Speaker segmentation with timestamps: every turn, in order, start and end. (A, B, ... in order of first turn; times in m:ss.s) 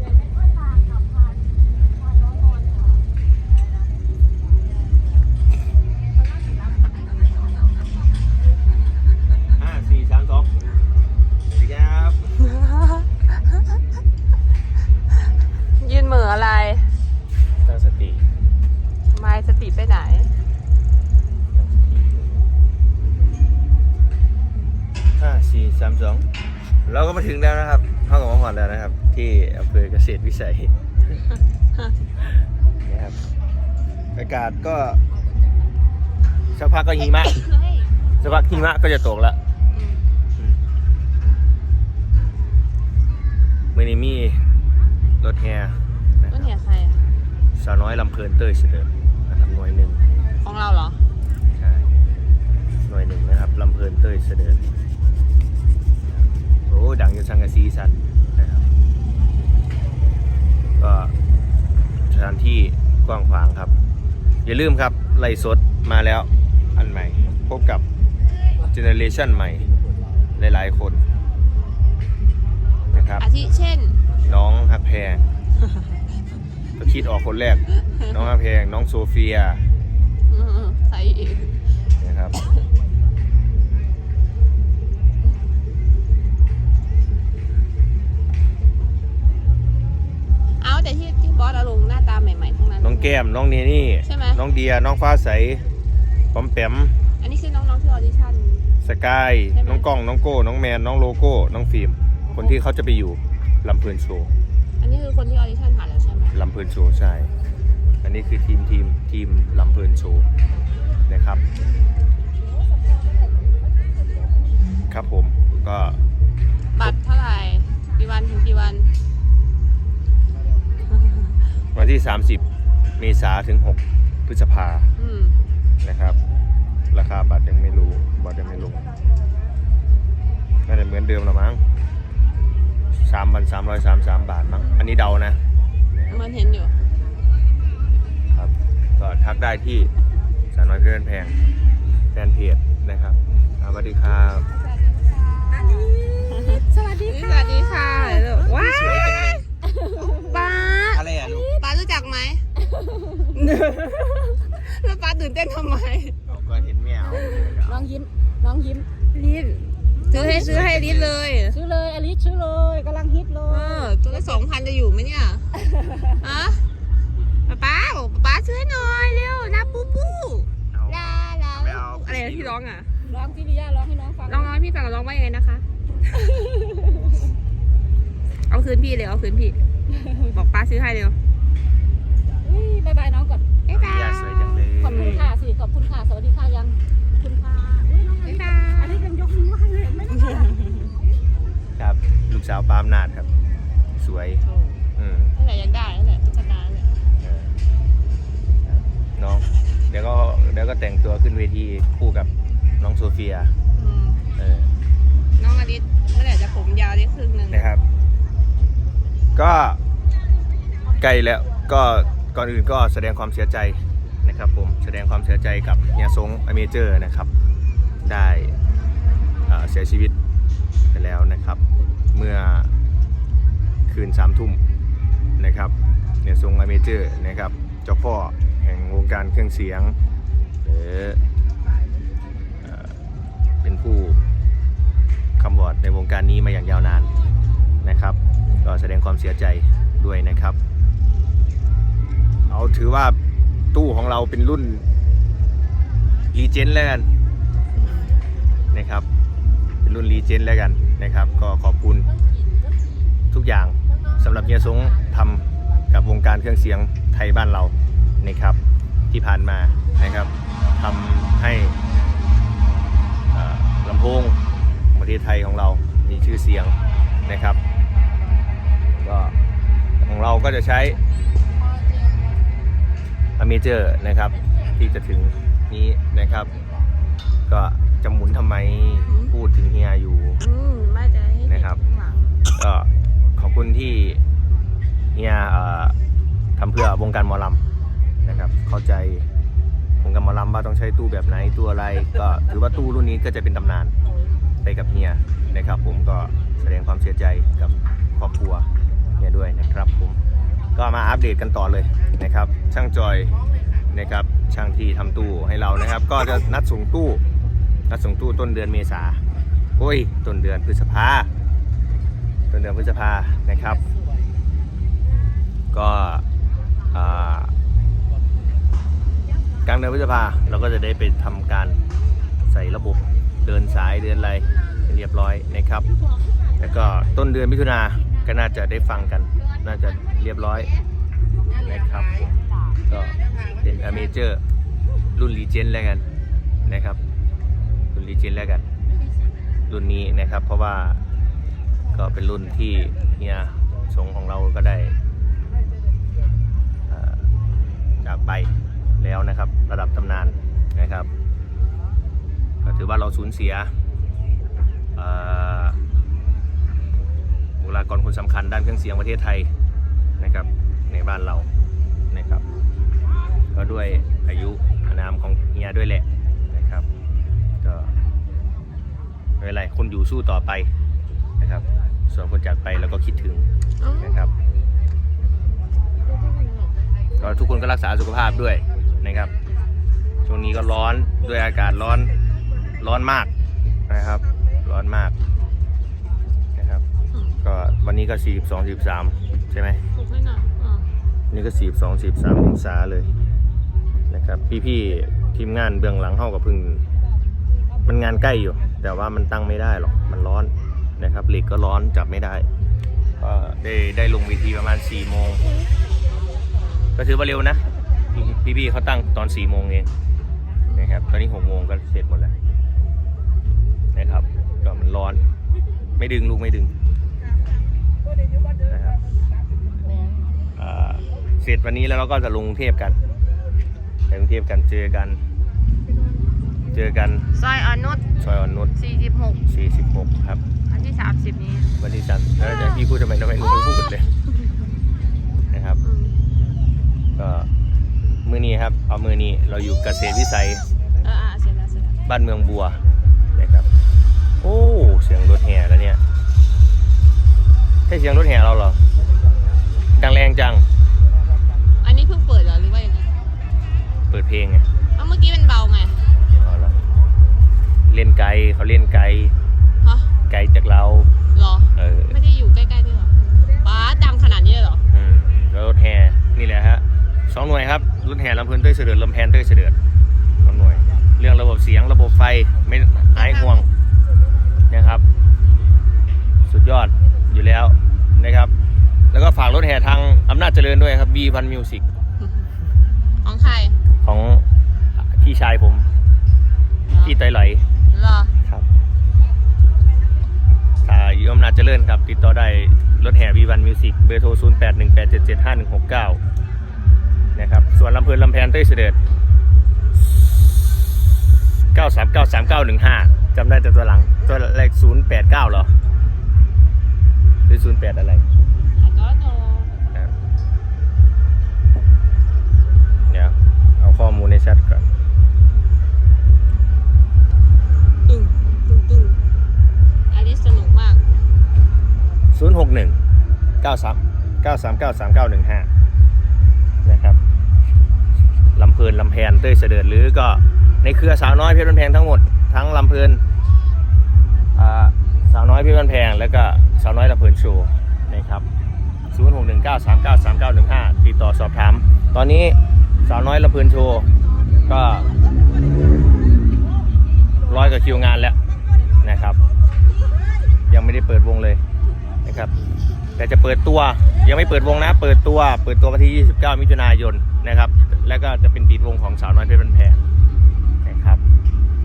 0:09.5-0:10.6 A
0:11.5-0:12.3 A
0:12.5-0:13.0 B
0:15.8-0:16.9 B
0:17.6-0:18.2 A
0:19.1-0:20.3 B
0:21.5-0:22.4 A
0:25.2-0:26.3 A
0:26.8-0:31.1 A
0:32.8-0:33.2 A
0:34.1-0:35.0 A
0:36.5-0:37.4 A
0:37.2-0:38.4 B
0:38.2-0:39.4 A
0:39.7-0:40.0 B
0:43.7-0:44.5 A
0:45.2-0:46.5 A
0:46.3-0:47.0 B
0:47.6-0:50.0 A
0:50.4-0:51.0 B
0:51.6-0:51.9 A
0:52.8-0:54.6 A
0:56.1-0:58.6 A
1:00.8-1:01.1 A
1:02.1-1:03.7 A
1:04.4-1:07.8 A
1:08.6-1:09.7 A
1:10.3-1:11.0 A
1:12.9-1:13.2 A
1:13.2-1:14.0 B
1:14.2-1:15.2 A
1:16.8-1:19.6 A
1:17.9-1:18.2 B
1:20.3-1:21.5 B
1:22.0-1:22.4 A
1:30.6-1:33.2 B
1:32.8-1:35.6 A
1:34.0-1:34.4 B
1:36.3-1:37.0 A
1:37.2-1:38.7 B
1:38.8-1:44.3 A
1:39.5-1:39.9 B
1:42.3-1:42.6 B
1:44.8-1:46.4 B
1:46.3-1:47.3 A
1:48.0-1:50.3 A
1:51.1-1:51.4 A
1:54.9-1:56.0 A
1:56.7-1:58.9 B
2:01.0-2:01.4 B
2:01.7-2:02.4 A
2:03.0-2:04.9 A
2:05.0-2:05.4 B
2:05.8-2:06.2 A
2:06.9-2:08.8 A
2:10.6-2:11.6 A
2:13.0-2:15.4 A
2:14.6-2:14.9 B
2:16.1-2:16.8 B
2:18.3-2:19.9 A
2:20.5-2:21.4 A
2:22.1-2:24.5 A
2:24.5-2:25.8 B
2:25.5-2:28.4 C
2:26.4-2:29.4 B
2:28.4-2:29.4 A
2:29.7-2:30.4 C
2:30.0-2:32.4 B
2:30.9-2:31.5 A
2:31.2-2:31.6 C
2:32.6-2:33.4 C
2:33.3-2:36.2 B
2:36.3-2:37.9 A
2:37.1-2:38.9 C
2:37.2-2:37.5 B
2:39.1-2:41.6 B
2:40.1-2:40.7 C
2:40.1-2:41.2 A
2:41.5-2:44.4 C
2:43.5-2:45.4 B
2:45.5-2:46.2 C
2:46.2-2:46.6 B
2:47.5-2:52.9 B
2:50.7-2:52.6 A
2:53.0-2:54.6 C
2:54.3-2:55.6 B
2:56.5-2:57.1 C
2:58.5-2:59.6 B
3:00.0-3:00.4 C
3:00.3-3:01.2 B
3:02.4-3:03.5 C
3:03.7-3:04.3 B
3:03.7-3:05.2 A
3:04.8-3:10.6 C
3:04.8-3:05.3 B
3:08.2-3:09.1 B
3:11.8-3:13.3 A
3:14.0-3:14.4 A
3:15.0-3:15.3 A
3:15.4-3:16.9 B
3:17.2-3:17.6 A
3:18.6-3:23.5 A
3:23.7-3:24.2 B
3:24.4-3:24.7 A
3:25.4-3:27.7 B
3:27.5-3:27.8 A
3:29.3-3:29.8 A
3:31.0-3:37.3 A
3:38.0-3:38.6 A
3:39.4-3:40.1 A
3:40.9-3:41.6 A
3:42.1-3:42.7 A
3:43.9-3:44.6 A
3:45.4-3:50.0 A
3:50.6-3:51.2 A
3:52.6-3:53.0 A
3:53.6-3:54.2 A
3:55.4-3:57.1 A
3:57.8-4:00.6 A
4:02.5-4:03.2 A
4:03.7-4:04.8 A
4:06.3-4:07.1 A
4:07.7-4:08.1 B
4:08.7-4:09.1 A
4:09.8-4:12.1 A
4:13.3-4:18.6 A
4:19.1-4:21.8 A
4:23.3-4:24.4 A
4:24.9-4:27.6 A
4:29.0-4:29.4 A
4:30.0-4:31.0 A
4:31.7-4:32.2 B
4:33.4-4:36.5 A
4:37.5-4:40.4 A
4:39.1-4:39.3 B
4:40.4-4:42.2 B
4:41.5-4:41.8 A
4:42.5-4:44.2 A
4:45.1-4:46.0 A
4:46.6-4:47.6 A
4:48.2-4:49.3 A
4:50.0-4:53.9 A
4:54.6-5:00.2 A
5:00.7-5:03.4 A
5:03.9-5:07.2 A
5:07.9-5:09.2 A
5:09.8-5:11.3 A
5:12.5-5:13.8 A
5:15.7-5:16.2 A
5:16.9-5:17.5 A
5:19.6-5:21.8 A
5:22.5-5:25.9 A
5:26.6-5:30.7 A
5:31.6-5:32.3 A
5:32.9-5:34.4 A
5:35.1-5:36.0 A
5:36.6-5:37.0 A
5:37.9-5:38.6 A
5:39.7-5:41.0 A
5:41.9-5:45.0 A
5:46.9-5:47.3 A
5:48.0-5:51.1 A
5:52.6-5:53.7 A
5:55.0-5:55.8 A
5:57.6-5:59.5 A
6:00.2-6:01.5 A
6:02.1-6:02.4 A
6:03.5-6:06.8 A
6:07.6-6:07.9 A
6:09.4-6:10.7 A
6:11.4-6:13.5 A
6:13.8-6:14.1 B
6:14.0-6:14.3 A
6:16.1-6:17.3 B
6:17.2-6:19.3 A
6:20.2-6:22.1 A
6:22.8-6:23.3 A
6:23.9-6:25.1 A
6:26.6-6:26.8 A
6:27.1-6:27.4 B
6:27.4-6:29.8 A
6:29.9-6:30.9 B
6:31.3-6:33.1 A
6:34.1-6:36.8 A
6:37.8-6:42.5 A
6:43.2-6:45.5 A
6:47.0-6:49.9 A
6:50.7-6:50.9 B
6:50.8-6:52.3 A
6:53.9-6:55.2 A
6:56.0-6:56.7 A
6:58.7-6:59.0 A
7:00.6-7:03.0 A
7:04.1-7:05.2 A
7:06.7-7:07.3 A
7:07.3-7:08.0 B
7:08.2-7:08.7 A
7:08.8-7:09.4 B
7:09.5-7:10.4 A
7:10.7-7:11.7 B
7:11.8-7:14.1 A
7:15.5-7:15.8 A
7:15.8-7:16.2 B
7:17.2-7:17.5 A
7:18.2-7:20.7 A
7:21.0-7:22.0 B
7:22.0-7:22.8 A
7:23.4-7:23.7 A
7:24.4-7:26.0 A
7:27.9-7:28.8 A
7:29.9-7:30.6 A
7:31.8-7:33.3 B
7:34.1-7:34.6 A
7:35.0-7:36.1 B
7:36.4-7:36.8 A
7:37.9-7:39.3 A
7:39.8-7:40.1 B
7:40.3-7:41.1 A
7:41.3-7:44.8 B
7:41.8-7:42.2 A
7:44.9-7:49.7 A
7:50.4-7:53.7 A
7:53.1-7:53.6 B
7:54.7-7:55.0 A
7:56.5-7:58.5 A
7:59.1-8:01.8 A
8:03.2-8:03.8 B
8:04.0-8:04.4 A
8:05.0-8:05.9 A
8:06.9-8:07.2 B
8:07.0-8:07.6 A
8:07.9-8:08.3 B
8:10.8-8:16.2 A
8:17.3-8:19.0 A
8:20.2-8:20.5 A
8:21.7-8:25.7 A
8:27.5-8:28.2 A
8:28.8-8:29.7 B
8:33.1-8:34.9 A
8:38.0-8:39.2 B
8:40.1-8:41.0 B
8:42.3-8:43.0 A
8:43.6-8:45.7 A
8:46.8-8:47.2 A
8:48.5-8:53.2 A
8:54.5-8:58.4 A
8:59.1-9:04.1 A
9:04.7-9:05.1 A
9:07.5-9:08.4 A
9:09.0-9:09.4 A
9:10.7-9:11.6 A
9:12.2-9:12.5 A
9:13.2-9:20.0 A
9:20.8-9:21.2 A